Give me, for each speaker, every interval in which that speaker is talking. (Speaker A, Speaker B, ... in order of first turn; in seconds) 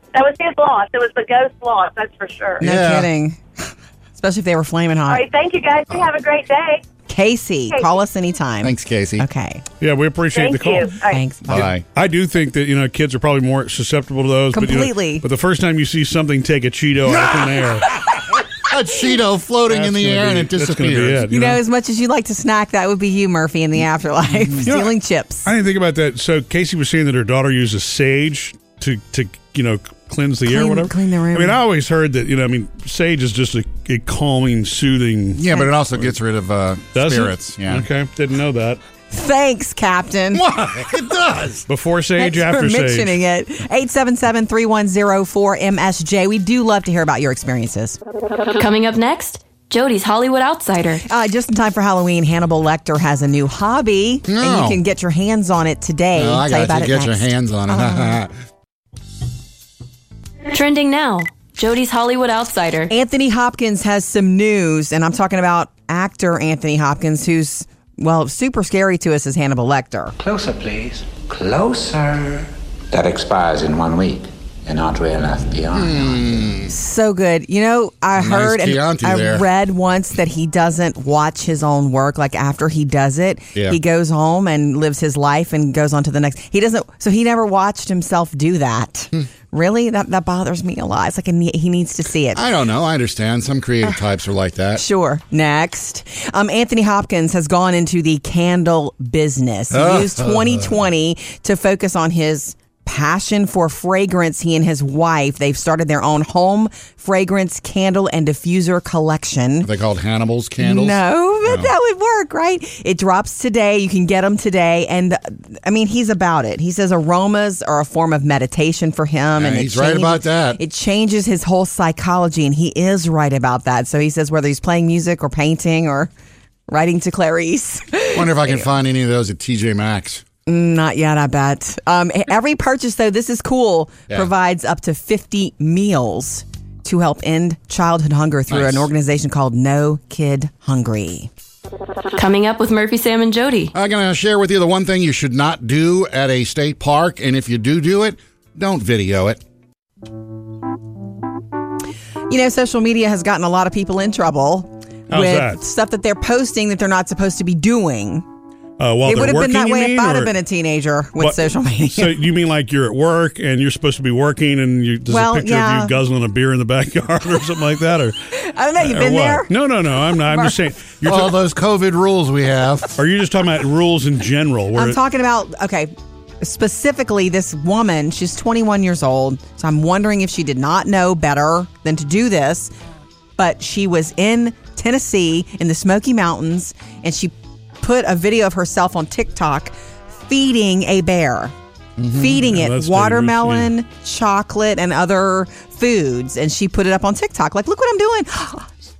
Speaker A: 0.1-2.6, 5.1-6.8, 7.7-8.0, 10.3-11.2
Speaker B: 2.6-3.1, 8.6-9.2, 11.5-11.8, 17.1-21.3, 35.4-37.9, 40.3-41.7, 54.3-54.8, 56.1-58.3, 75.7-76.7, 78.2-79.5, 92.3-94.8, 99.7-100.7, 109.6-111.7, 119.4-120.6, 128.1-130.2, 138.5-138.9, 143.7-149.4, 171.0-173.0, 192.0-192.4
Speaker C: 2.6-5.2, 7.1-9.6, 11.1-11.7, 14.5-15.2, 21.3-25.5, 30.5-31.6, 39.1-40.5, 42.2-48.0, 51.0-58.2, 62.9-70.1, 76.7-92.4, 94.8-109.7, 110.6-126.1, 126.7-128.7, 130.5-141.3, 152.3-158.2, 159.1-162.2, 165.1-165.9, 168.3-169.5, 170.3-170.6, 174.8-182.7, 183.4-189.7, 190.3-191.5, 192.1-198.7
Speaker D: 9.8-10.9, 11.5-17.9, 19.7-21.6, 24.6-24.9, 25.4-35.5, 37.0-38.8, 41.7-43.2, 155.1-155.6, 158.8-160.3, 161.2-168.2, 168.8-171.3, 173.0-175.0, 192.4-193.7
Speaker E: 48.5-51.0, 60.5-62.9, 142.2-143.7
Speaker F: 71.4-71.9, 72.9-75.9